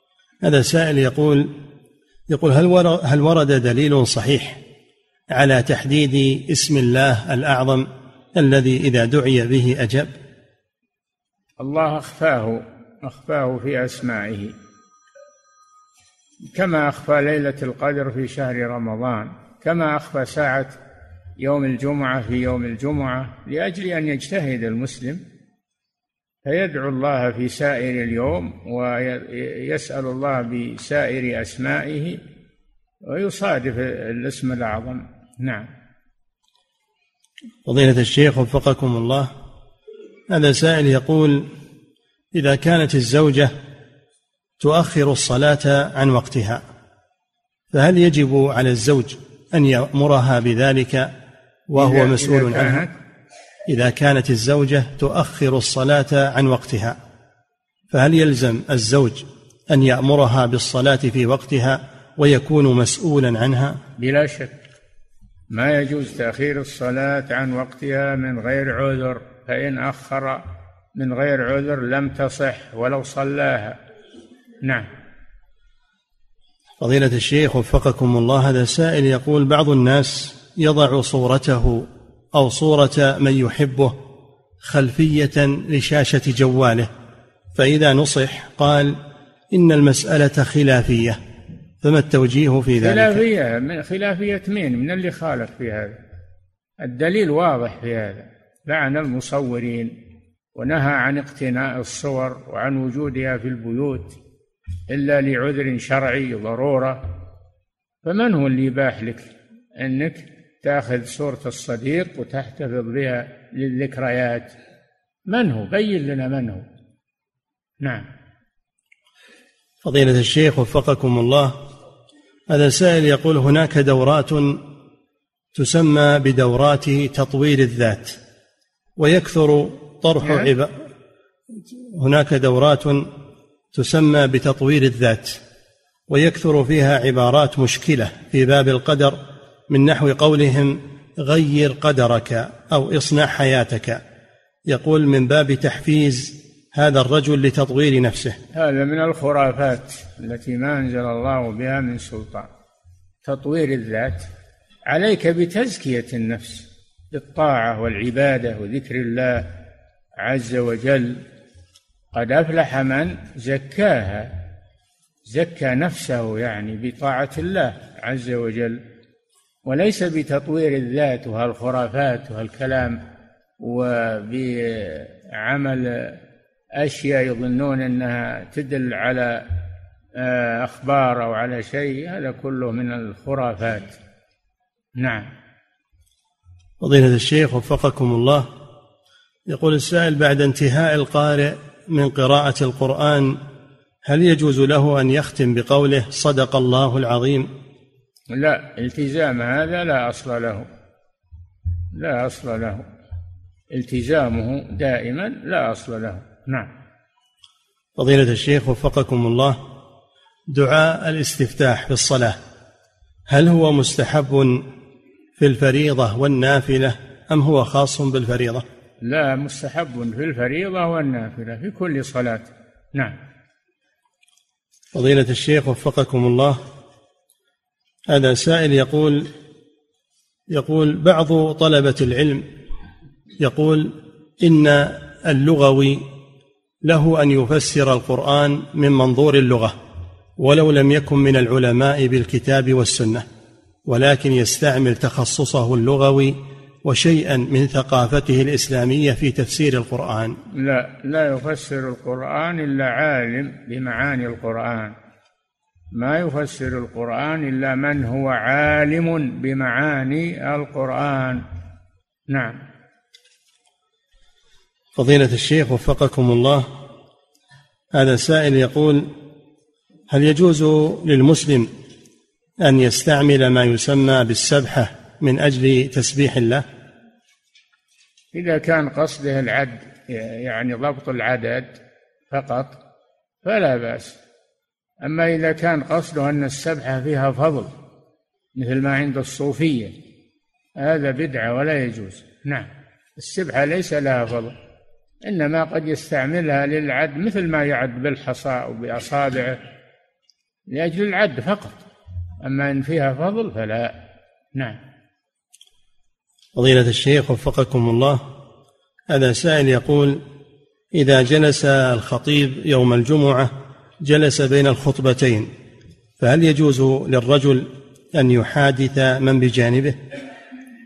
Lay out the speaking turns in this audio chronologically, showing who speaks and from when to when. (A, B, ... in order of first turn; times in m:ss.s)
0:00.4-0:01.5 A
0:02.3-0:04.6 A
0:05.3-0:10.1 A
0:11.6-0:14.6 B
0:16.5-0:20.8 B
0:21.4-0:25.2 B
0:26.4-0:32.2 B
0:33.1-0:35.7 B
0:37.6-0:39.3 A
0:40.3-0:41.5 A
0:42.3-0:43.5 A
0:44.6-0:46.6 A
0:47.7-0:51.1 A
0:51.7-0:52.8 A
0:51.8-0:52.9 B
0:53.7-0:57.0 A
0:57.9-1:03.8 A
1:04.0-1:04.6 B
1:05.5-1:10.4 B
1:11.0-1:13.8 B
1:14.6-1:14.9 B
1:16.8-1:24.0 A
1:24.6-1:26.9 A
1:27.6-1:29.0 A
1:29.5-1:31.2 A
1:31.8-1:33.2 A
1:32.8-1:36.0 B
1:36.8-1:40.0 B
1:40.6-1:44.2 B
1:44.9-1:47.0 B
1:48.0-1:54.5 B
1:55.3-1:56.7 B
1:57.8-1:58.1 B
1:59.8-2:01.6 A
2:02.5-2:04.6 A
2:05.5-2:08.2 A
2:09.0-2:10.7 A
2:10.2-2:10.5 B
2:11.9-2:13.1 A
2:13.7-2:15.4 A
2:16.1-2:24.0 A
2:24.7-2:28.4 A
2:28.5-2:32.5 B
2:33.2-2:34.3 B
2:34.9-2:39.5 B
2:40.2-2:41.2 B
2:42.1-2:44.3 B
2:45.3-2:48.8 B
2:49.6-2:53.0 B
2:53.6-2:56.2 B
2:56.8-2:59.5 B
3:00.2-3:04.0 B
3:05.0-3:05.3 B
3:06.8-3:08.5 A
3:09.5-3:13.4 A
3:14.0-3:17.5 A
3:18.3-3:20.7 B
3:21.9-3:22.9 B
3:23.7-3:26.7 B
3:28.0-3:29.6 A
3:30.5-3:32.4 A
3:33.3-3:34.7 A
3:35.4-3:38.6 A
3:39.0-3:43.2 B
3:44.9-3:46.6 A
3:48.1-3:49.3 A
3:50.5-3:52.5 A
3:53.4-3:56.0 A
3:56.8-3:59.8 A
4:00.4-4:03.2 A
4:03.9-4:10.4 A
4:10.5-4:15.0 B
4:16.0-4:21.4 B
4:22.3-4:22.6 B
4:25.0-4:26.7 A
4:27.9-4:29.1 A
4:30.1-4:31.7 A
4:32.6-4:36.6 A
4:38.3-4:41.8 B
4:42.3-4:42.8 B
4:43.4-4:44.2 B
4:45.0-4:47.7 B
4:48.6-4:50.0 B
4:50.8-4:54.6 B
4:55.2-4:59.6 B
5:00.7-5:01.8 B
5:02.4-5:04.0 B
5:06.6-5:08.2 A
5:09.1-5:10.2 A
5:10.9-5:15.5 A
5:16.2-5:20.0 A